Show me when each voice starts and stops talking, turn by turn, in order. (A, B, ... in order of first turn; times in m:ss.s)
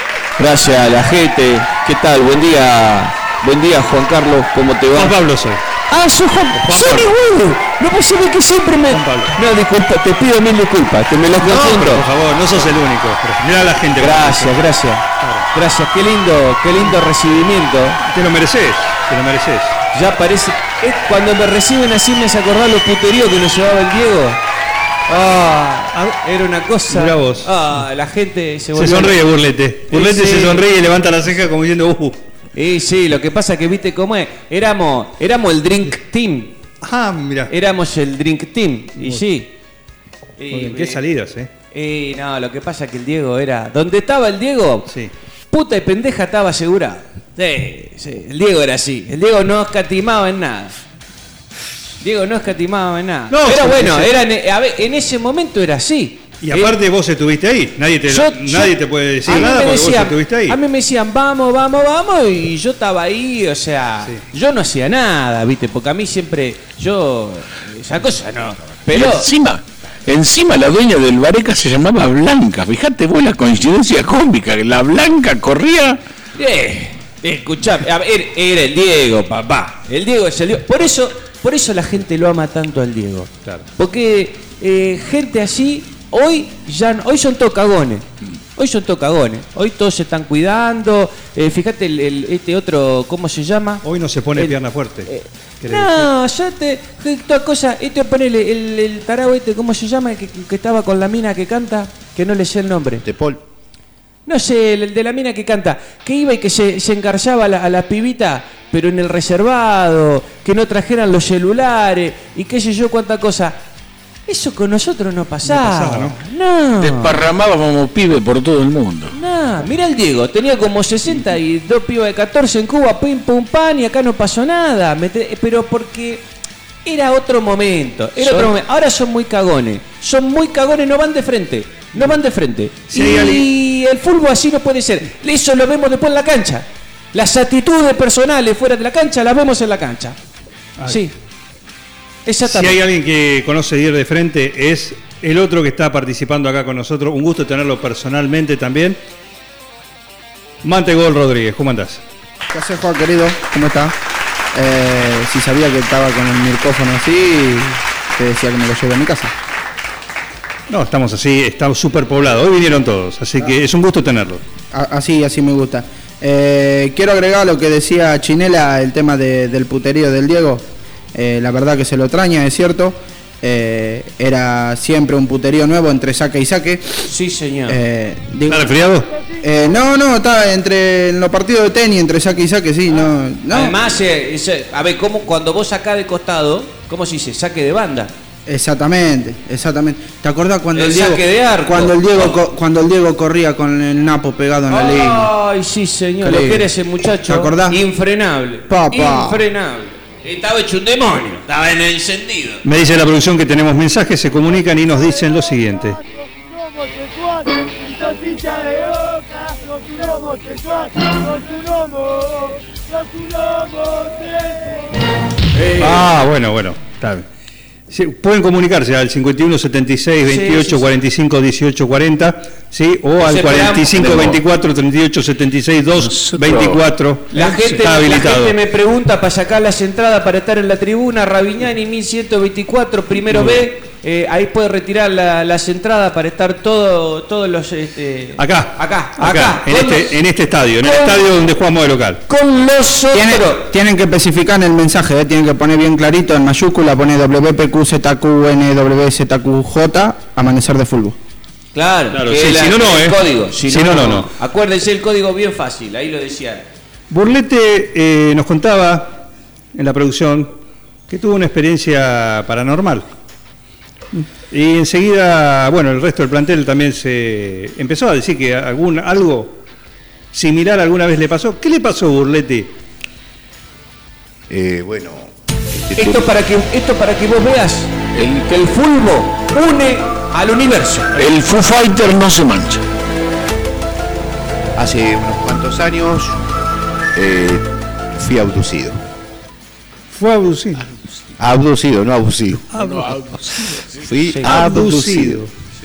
0:00.4-0:05.1 A
0:04.9-0:05.6 B
0:05.9-0:12.0 A
0:06.5-0:07.1 B
0:08.9-0:09.4 B
0:11.4-0:14.6 B
0:14.0-0:18.0 A
0:15.2-0:15.4 B
0:18.0-0:19.8 B
0:19.9-0:24.4 A
0:25.1-0:29.2 A
0:26.9-0:27.5 B
0:28.7-0:32.2 B
0:29.9-0:30.6 A
0:32.5-0:36.6 A
0:36.8-0:37.5 B
0:37.5-0:39.5 A
0:39.0-0:39.2 B
0:40.4-0:41.0 A
0:40.5-0:41.5 B
0:41.7-0:44.9 A
0:45.5-0:50.8 A
0:52.0-0:56.8 A
0:53.3-0:54.2 B
0:56.4-1:00.6 B
0:58.1-1:09.3 A
1:08.9-1:16.0 C
1:16.3-1:28.0 A
1:28.6-1:33.8 A
1:33.8-1:35.1 B
1:35.0-1:43.0 A
1:35.6-1:36.1 B
1:43.0-1:43.4 D
1:44.2-1:53.6 A
1:54.2-1:57.2 A
1:55.5-1:56.2 B
1:56.8-1:59.1 C
1:59.1-2:06.2 A
2:06.8-2:20.2 A
2:12.9-2:13.5 B
2:20.8-2:21.1 A
2:22.2-2:22.8 A
2:22.4-2:29.0 B
2:30.6-2:32.0 B
2:32.5-2:33.9 E
2:34.5-2:39.3 E
2:40.7-2:44.4 B
2:44.7-2:57.0 E
2:57.0-2:57.8 A
2:57.7-2:58.7 E
2:58.5-2:59.1 B
2:59.4-3:03.8 E
3:03.5-3:08.1 A
3:08.5-3:15.3 E
3:10.7-3:12.4 A
3:14.7-3:22.6 A
3:16.2-3:16.7 E
3:17.2-3:17.8 E
3:18.7-3:19.4 E
3:22.6-3:26.0 B
3:35.8-3:37.3 B
3:37.9-3:48.6 B
3:40.2-3:40.9 A
3:43.2-3:44.1 A
3:46.0-3:46.8 C
3:47.3-4:00.2 A
3:58.4-4:02.2 B
4:00.8-4:01.2 A
4:02.3-4:03.7 A
4:03.1-4:11.2 E
4:11.7-4:16.6 A
4:12.1-4:14.3 B
4:17.1-4:20.6 B
4:21.1-4:23.0 B
4:24.1-4:29.6 B
4:30.3-4:32.7 B
4:34.5-4:36.3 D
4:35.9-4:41.2 A
4:38.1-4:38.5 C
4:41.2-4:42.8 C
4:44.8-4:46.4 D
4:47.1-4:49.0 D
4:50.1-4:50.8 B
4:51.4-4:52.7 D
4:52.7-4:53.2 B
4:52.7-4:54.1 C
4:54.0-4:55.4 D
4:54.4-4:55.5 B